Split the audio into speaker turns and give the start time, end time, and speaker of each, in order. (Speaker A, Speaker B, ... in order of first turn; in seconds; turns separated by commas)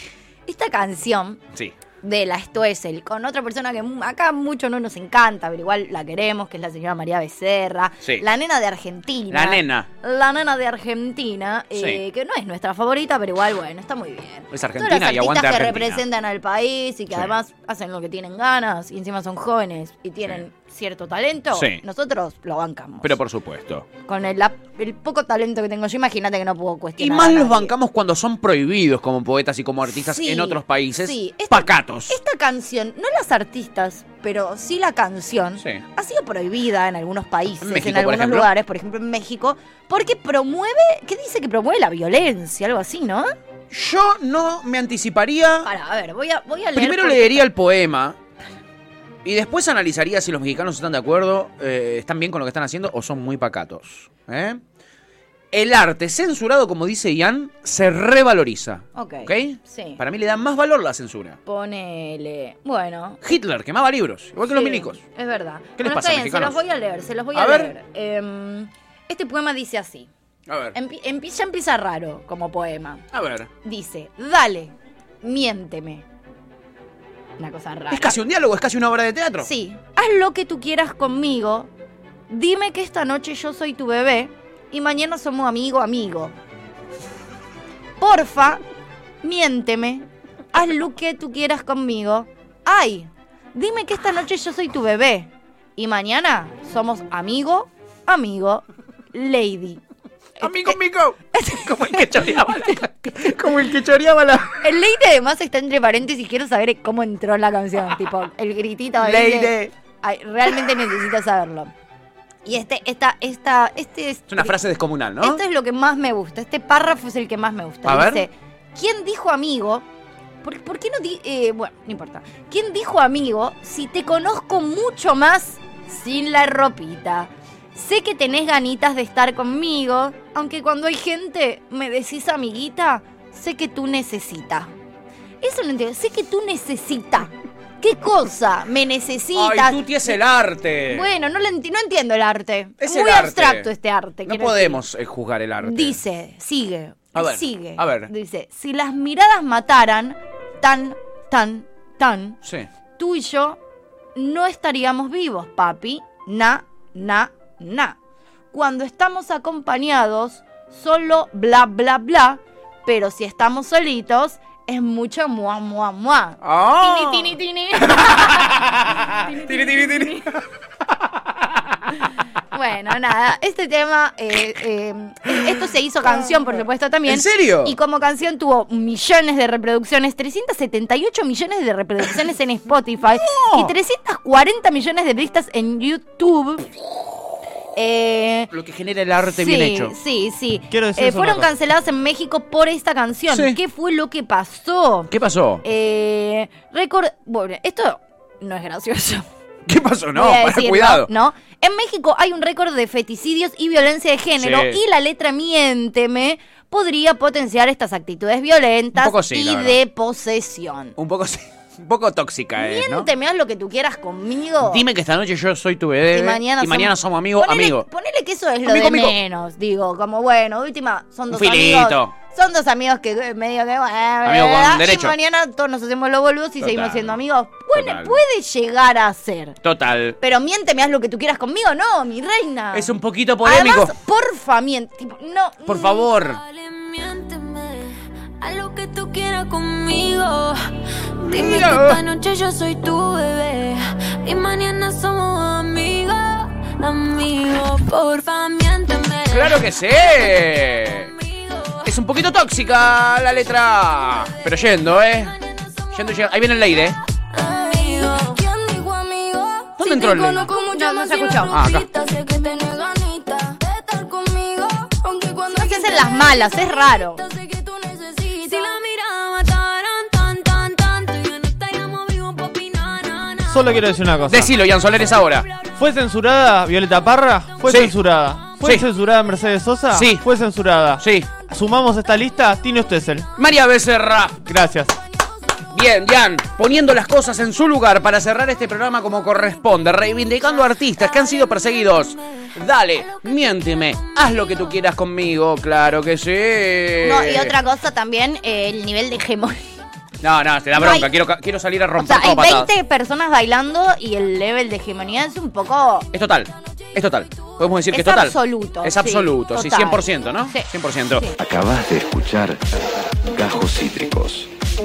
Speaker A: 0.5-1.4, Speaker A: 2.0-23.2, Speaker B: 9.3-9.9, Speaker B: 11.8-12.0, Speaker B: 14.5-16.0, Speaker B: 21.5-21.8, Speaker B: 23.0-23.9, Speaker A: 24.1-27.7, Speaker B: 27.0-32.2, Speaker A: 30.0-43.3, Speaker B: 35.6-35.8, Speaker B: 37.6-38.5, Speaker B: 43.7-45.7, Speaker A: 45.6-47.5, Speaker B: 46.8-48.2, Speaker B: 49.2-54.6, Speaker B: 55.5-61.4, Speaker A: 59.0-60.0, Speaker A: 61.5-63.2, Speaker B: 63.2-65.0, Speaker A: 64.5-70.1, Speaker B: 65.8-66.6, Speaker B: 67.3-67.7, Speaker B: 70.5-70.8, Speaker A: 70.7-73.0, Speaker B: 73.1-73.5, Speaker A: 73.6-76.0, Speaker A: 77.4-78.2, Speaker B: 77.9-79.5, Speaker A: 79.4-81.7, Speaker A: 82.3-86.3, Speaker A: 88.0-88.6, Speaker A: 89.2-99.8, Speaker A: 100.4-100.8, Speaker B: 100.4-104.6, Speaker A: 101.3-102.8, Speaker A: 104.6-111.7, Speaker B: 109.0-109.7, Speaker A: 112.5-114.6, Speaker B: 114.3-115.4, Speaker A: 115.2-119.8, Speaker B: 117.8-118.3, Speaker A: 120.4-134.7, Speaker A: 135.4-140.2, Speaker B: 139.3-141.1, Speaker A: 140.9-144.8, Speaker B: 142.8-143.7, Speaker B: 144.2-146.0, Speaker A: 145.6-152.4, Speaker B: 147.1-148.1, Speaker A: 153.0-153.6, Speaker A: 154.2-158.0, Speaker A: 158.5-168.6, Speaker B: 166.4-167.4, Speaker B: 167.9-170.4, Speaker A: 169.2-170.3, Speaker A: 172.5-186.7, Speaker B: 177.1-177.8, Speaker B: 183.2-183.7, Speaker A: 187.8-188.5, Speaker B: 188.5-189.9, Speaker A: 189.3-195.1, Speaker C: 190.7-191.5, Speaker B: 193.3-193.6, Speaker B: 195.1-195.6, Speaker A: 195.6-199.3, Speaker B: 199.7-201.1, Speaker A: 200.1-211.0, Speaker B: 204.4-204.8, Speaker B: 209.0-209.8, Speaker B: 211.0-213.1, Speaker A: 212.6-214.8, Speaker B: 214.6-217.9, Speaker A: 216.1-229.6, Speaker B: 218.7-219.2, Speaker B: 221.3-222.1, Speaker B: 224.2-225.2, Speaker B: 226.6-227.2, Speaker B: 227.7-228.2, Speaker B: 229.6-230.2, Speaker A: 230.2-236.1, Speaker B: 232.7-233.9, Speaker B: 235.7-236.4, Speaker D: 236.2-252.6, Speaker B: 241.3-242.0, Speaker B: 249.3-251.1, Speaker B: 251.8-255.4, Speaker D: 253.9-254.5, Speaker D: 255.0-256.2, Speaker B: 255.9-257.0, Speaker D: 257.3-266.6, Speaker B: 259.8-260.6, Speaker A: 260.6-261.6, Speaker B: 261.5-261.9, Speaker A: 265.5-267.2, Speaker D: 267.2-274.0, Speaker C: 273.5-274.5, Speaker B: 274.2-275.5, Speaker C: 275.8-283.3, Speaker B: 277.6-278.0, Speaker B: 278.6-278.9, Speaker B: 279.9-280.3, Speaker B: 281.0-281.4, Speaker B: 283.4-284.6, Speaker C: 284.4-284.9, Speaker B: 285.7-297.5, Speaker D: 289.9-294.8, Speaker A: 297.0-299.7, Speaker B: 300.2-302.7, Speaker A: 300.8-301.1, Speaker A: 302.0-306.1, Speaker B: 306.1-311.3, Speaker A: 307.9-311.4, Speaker E: 311.4-314.5